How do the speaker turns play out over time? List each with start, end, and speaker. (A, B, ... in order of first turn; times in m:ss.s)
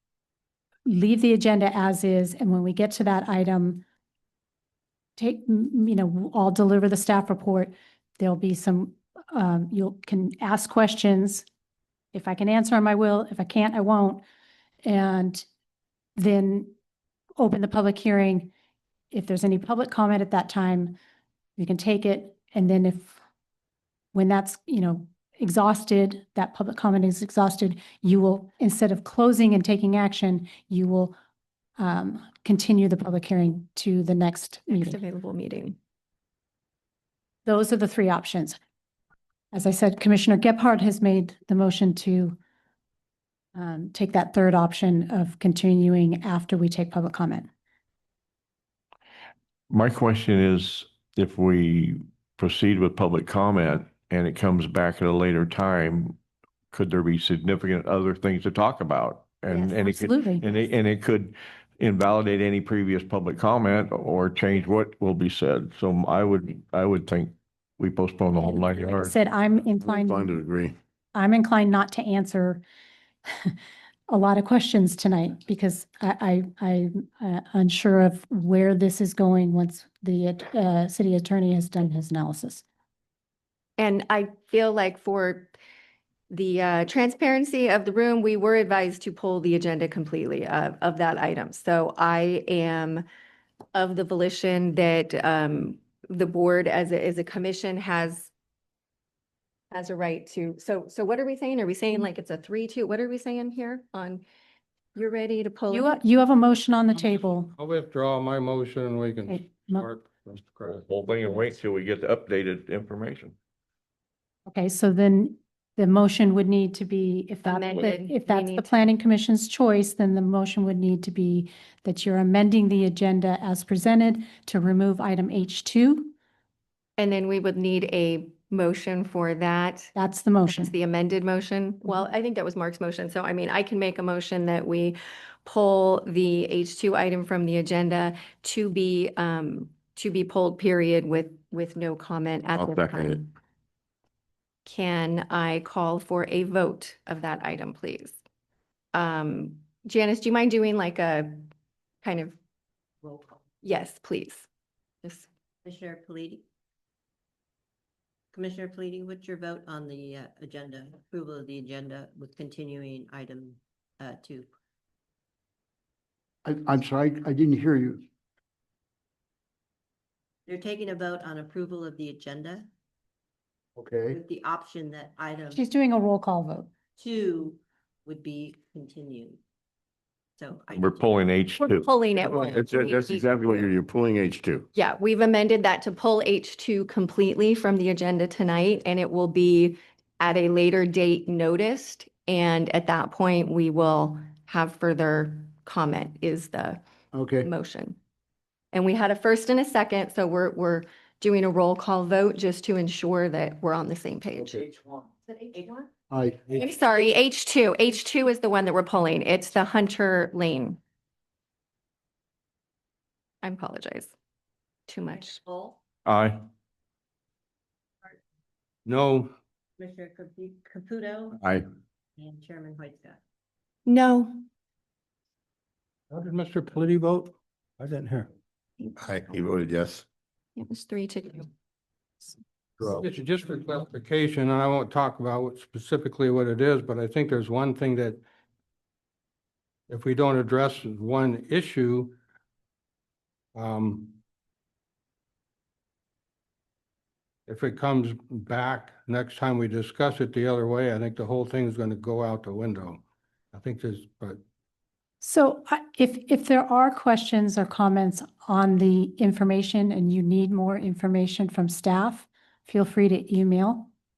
0:00.8-0:03.8 A
0:05.2-0:11.4 A
0:12.1-0:14.2 A
0:14.8-0:15.5 A
0:16.2-0:16.7 A
0:17.4-0:18.5 A
0:19.1-0:21.0 A
0:21.6-0:23.2 A
0:24.1-0:31.2 A
0:31.8-0:35.0 A
0:34.7-0:35.8 B
0:37.4-0:38.6 A
0:39.5-0:42.4 A
0:43.6-0:47.5 A
0:49.7-0:56.2 C
0:56.7-1:09.1 C
0:59.5-0:59.8 B
0:59.8-1:00.4 A
1:08.4-1:10.3 A
1:09.8-1:10.7 D
1:11.1-1:12.6 A
1:14.1-1:22.6 A
1:23.8-1:25.5 B
1:26.3-1:33.0 B
1:33.7-1:38.3 B
1:39.7-1:44.2 B
1:44.9-1:46.0 B
1:45.7-1:47.5 A
1:47.6-1:50.8 E
1:49.3-1:49.9 A
1:50.6-1:53.3 C
1:54.5-2:06.1 A
1:57.4-1:58.9 B
2:07.0-2:09.9 B
2:10.0-2:10.7 A
2:10.5-2:23.3 B
2:22.6-2:23.2 D
2:24.7-2:28.2 B
2:28.9-2:31.5 B
2:32.0-2:32.4 B
2:33.0-2:33.4 F
2:33.6-2:34.5 B
2:35.6-2:36.4 F
2:38.3-2:44.5 F
2:46.4-2:48.0 G
2:50.5-2:52.7 F
2:53.8-2:54.2 G
2:54.1-2:55.6 F
2:55.5-2:56.7 A
2:57.0-2:59.4 F
3:00.4-3:01.3 F
3:00.7-3:01.9 C
3:01.6-3:03.2 B
3:02.2-3:04.7 D
3:04.8-3:16.8 B
3:17.1-3:17.5 G
3:17.4-3:18.0 B
3:18.7-3:24.7 B
3:26.1-3:26.5 G
3:26.5-3:30.8 B
3:33.4-3:34.1 B
3:34.9-3:35.6 B
3:35.5-3:35.7 F
3:36.0-3:36.4 C
3:38.8-3:39.3 E
3:39.8-3:41.4 F
3:41.4-3:41.6 D
3:42.2-3:43.2 F
3:43.8-3:44.4 B
3:46.1-3:48.3 E
3:49.0-3:50.0 D
3:50.6-3:51.5 B
3:52.9-3:58.2 E
3:59.9-4:02.2 E
4:03.5-4:04.2 E
4:07.5-4:13.0 E
4:13.5-4:14.4 E
4:15.2-4:23.9 A